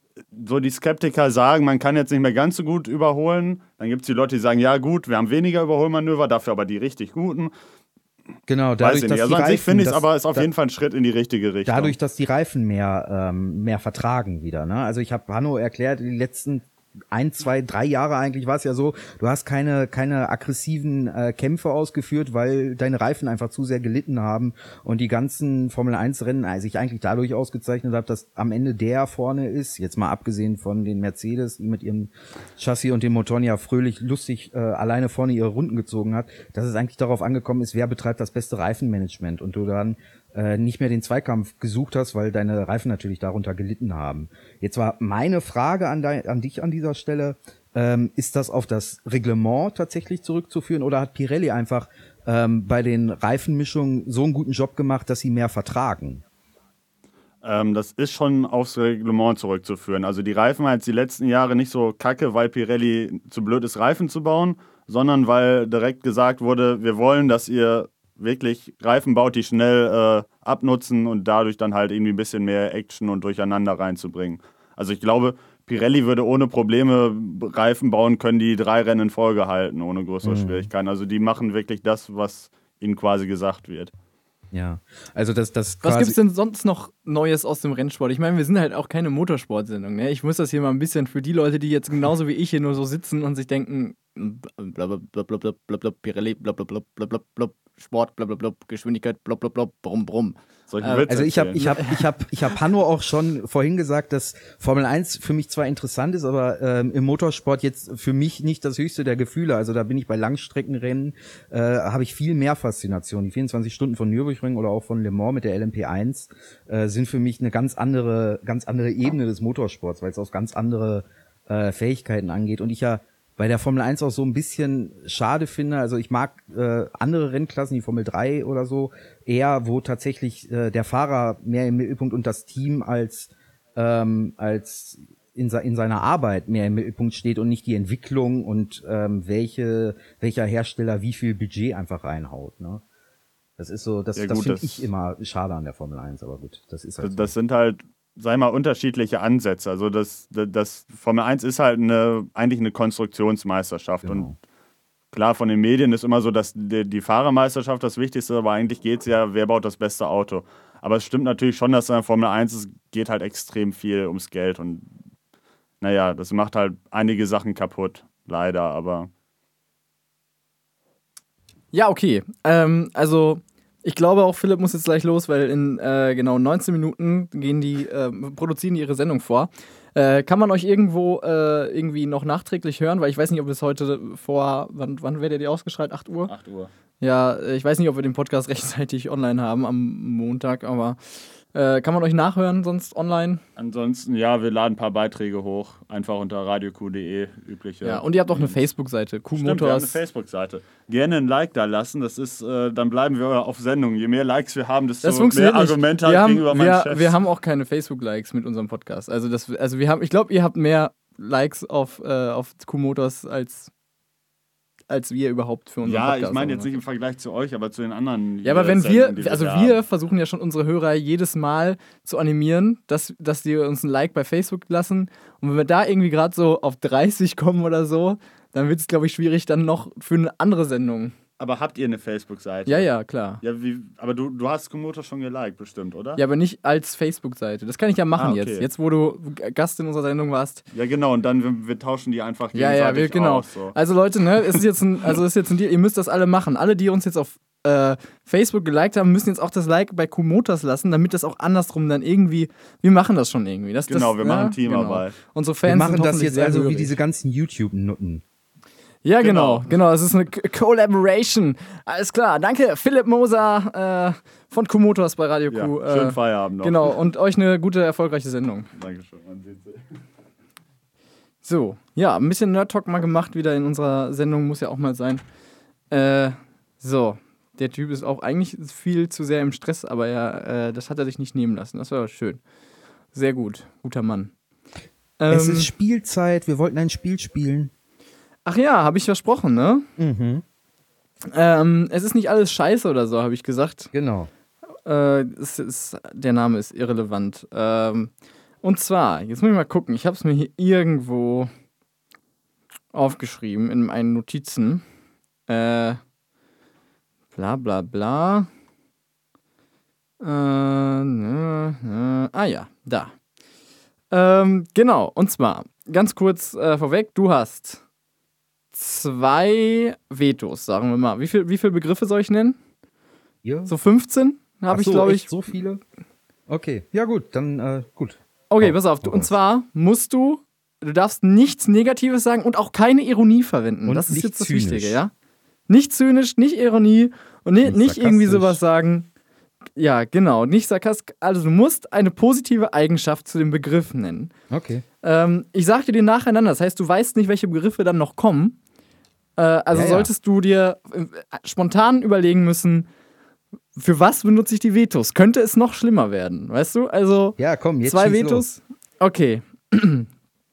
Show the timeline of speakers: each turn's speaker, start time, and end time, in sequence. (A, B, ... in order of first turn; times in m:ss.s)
0:00.3-0:07.5 A
0:08.5-0:10.5 B
0:08.8-0:12.0 A
0:11.6-0:56.2 B
0:57.4-1:23.9 A
1:20.2-1:20.7 B
1:24.5-1:26.2 B
1:25.8-1:42.0 C
1:40.7-1:41.7 A
1:41.1-2:22.8 B
2:23.6-2:27.3 B
2:24.2-2:24.9 A
2:27.0-2:34.3 A
2:34.0-2:34.4 B
2:35.1-2:44.9 A
2:45.8-2:49.1 A
2:51.7-3:06.3 C
3:06.3-3:06.7 A
3:07.0-3:11.0 C
3:11.5-3:13.4 C
3:13.6-3:18.6 A
3:17.8-3:20.0 C
3:19.3-3:27.1 A
3:25.0-3:33.7 C
3:34.9-3:36.7 C
3:35.8-3:39.8 A
3:38.4-3:51.1 C
3:51.4-3:52.9 A
3:52.7-3:53.4 C
3:53.4-3:56.2 A
3:56.2-4:00.6 C
3:58.2-3:58.7 A
4:00.7-4:03.8 A
4:02.5-4:16.9 C
4:13.9-4:15.2 A
4:15.6-4:18.2 B
4:19.0-4:28.7 C
4:19.2-4:19.7 A
4:25.5-4:27.0 A
4:28.8-4:29.8 A
4:31.4-4:35.2 C
4:35.9-4:42.4 C
4:43.1-4:44.3 C
4:45.2-4:45.7 C
4:45.3-4:47.7 B
4:48.5-4:49.9 C
4:50.0-4:50.4 B
4:51.3-4:53.9 C
4:53.9-4:54.3 B
4:54.9-4:58.1 C
4:58.6-5:01.5 C
5:02.9-5:04.8 C
5:05.5-5:06.0 C
5:07.4-5:08.5 C
5:10.2-5:13.1 C
5:14.1-5:17.8 C
5:18.7-5:22.6 C
5:23.4-5:23.7 B
5:23.7-5:25.3 C
5:24.7-5:25.8 B
5:26.5-5:29.3 B
5:28.5-5:35.1 C
5:33.9-5:35.0 B
5:35.7-5:39.1 C
5:37.6-5:38.6 B
5:39.8-5:44.3 C
5:44.5-5:44.8 B
5:45.0-5:48.6 C
5:49.4-5:52.9 C
5:49.7-5:50.1 B
5:53.8-6:00.1 C
5:57.4-5:58.4 B